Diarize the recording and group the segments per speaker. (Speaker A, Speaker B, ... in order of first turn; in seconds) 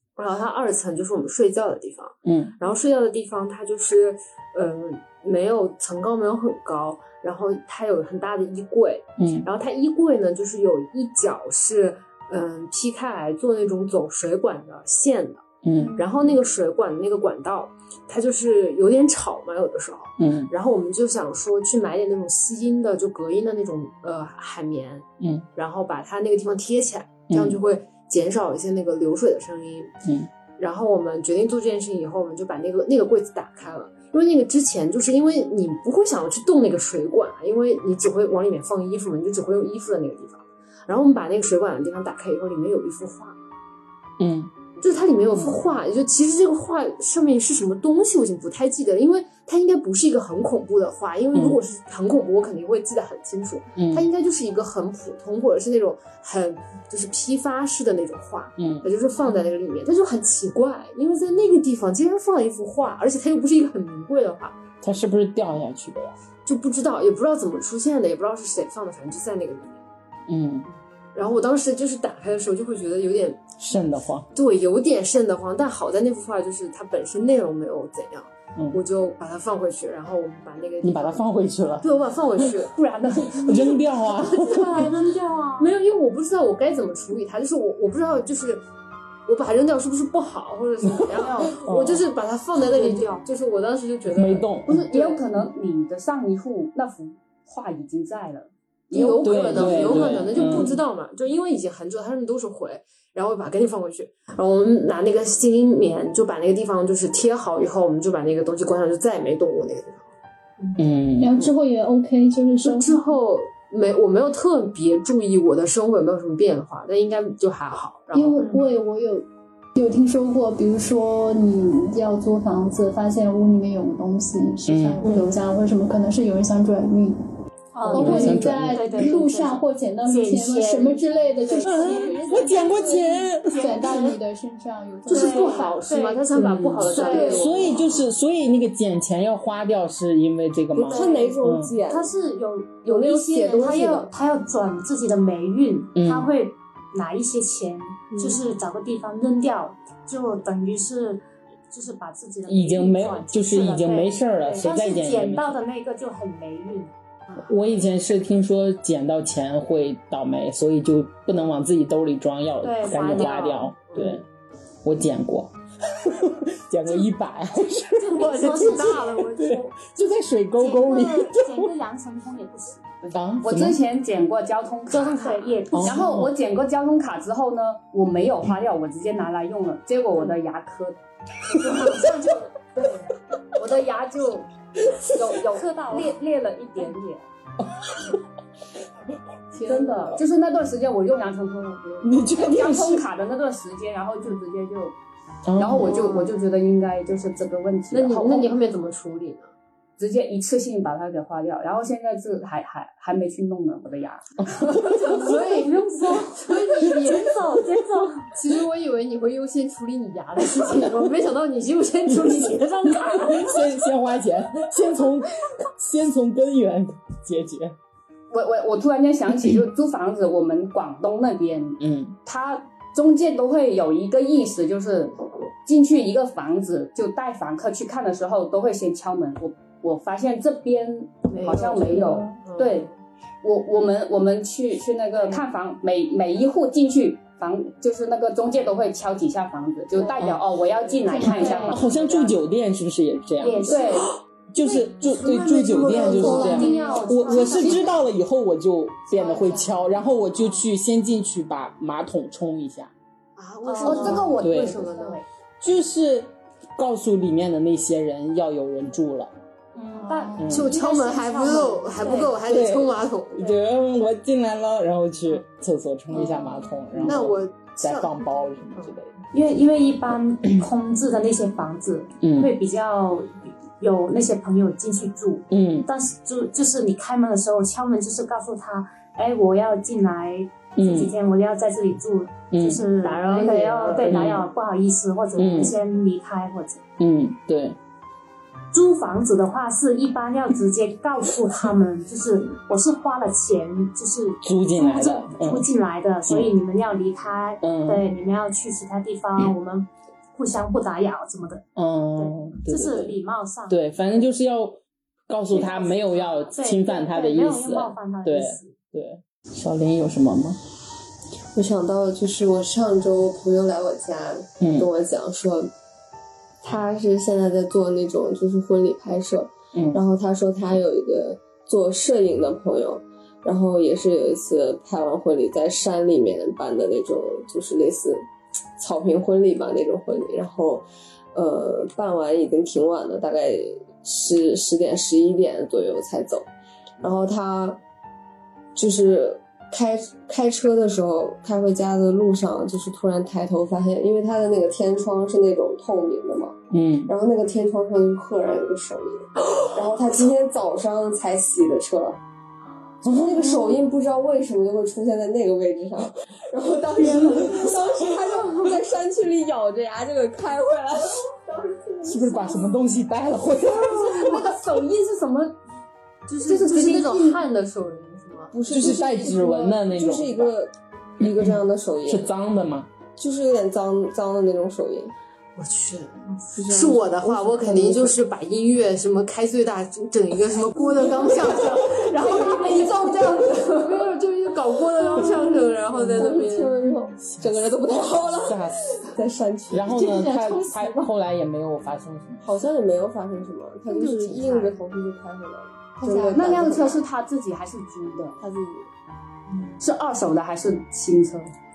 Speaker A: 0.1-29.9, 30.6-43.4, 44.8-64.6, 66.4-69.8, 71.1-73.4, 74.3-81.2, 81.8-82.7, 85.6-88.6, 89.2-95.2, 98.9-110.1, 112.6-118.5, 125.0-125.3, 135.1-138.0, 163.9-164.2, 168.2-169.6, 189.6-190.1, 195.8-196.3, 197.9-199.5, 205.0-207.3, 208.3-213.7, 231.3-232.9, 240.8-241.7, 245.0-247.5, 253.3-255.2, 260.5-263.6, 266.9-269.0, 283.0-284.3, 363.8-364.6, 366.4-368.6, 375.6-386.7
Speaker B: 2.2-2.5, 9.2-9.5, 15.6-16.0, 20.2-20.5, 25.2-25.5, 27.3-27.6, 30.0-30.3, 44.2-44.5, 51.3-51.6, 53.8-54.1, 58.6-58.9, 64.8-66.2, 70.3-70.7, 73.6-74.3, 80.8-82.6, 83.2-84.9, 90.8-92.0, 94.1-94.9, 98.9-100.8, 110.8-111.5, 124.7-125.1, 127.9-129.1, 131.6-133.8, 137.2-141.7, 145.9-146.3, 152.5-155.6, 157.3-164.2, 164.8-171.7, 173.1-173.8, 175.7-176.3, 187.6-188.2, 192.0-193.0, 195.4-196.0, 204.4-205.0, 212.1-217.8, 221.8-222.2, 240.2-240.4, 241.2-243.9, 244.5-252.9, 254.4-254.8, 255.6-259.3, 260.4-260.7, 262.4-269.1, 272.2-272.5, 275.5-275.9, 280.8-281.1, 282.5-282.8, 284.0-284.4, 285.4-285.8, 287.0-287.8, 294.4-295.7, 296.2-296.5, 297.6-298.0, 301.8-303.1, 303.7-310.6, 314.6-314.9, 319.7-320.0, 346.7-347.1, 353.0-353.7, 362.0-364.2, 368.7-370.6, 371.2-372.9, 387.2-387.6, 388.4-388.8, 389.7-392.5
Speaker C: 82.8-83.3, 94.7-100.7, 173.0-181.0, 183.6-184.5, 185.1-187.2, 189.6-195.0, 195.6-198.6, 200.0-205.4, 218.3-232.9, 233.4-242.3, 243.6-244.1, 253.8-255.2, 364.2-365.5, 366.6-367.4, 396.2-398.4, 399.8-401.5
Speaker D: 83.2-85.8, 91.1-91.6, 92.5-93.2, 127.7-134.2, 135.1-137.8, 140.8-156.9, 162.6-163.7, 167.9-169.7, 170.6-172.8, 174.9-176.1, 181.5-183.0, 185.5-186.2, 204.9-208.3, 241.1-241.9, 243.4-244.1, 245.8-248.0, 249.1-249.8, 253.6-254.4, 259.7-262.4, 269.3-286.8, 288.7-301.6, 302.2-303.8, 305.5-308.7, 366.3-366.8
Speaker E: 111.2-113.0, 118.1-127.2, 127.8-135.7, 137.0-137.5, 246.2-246.7, 260.0-260.5, 382.5-382.9, 385.2-385.5, 386.8-387.2, 389.9-391.1
Speaker F: 140.8-142.1, 142.8-144.1, 148.1-148.4, 311.5-315.7, 316.6-336.5, 337.0-337.8, 338.7-352.2, 353.0-361.3, 368.5-372.3, 373.2-375.1, 376.5-378.2, 382.5-383.9, 386.1-390.1, 392.4-397.0, 398.4-398.9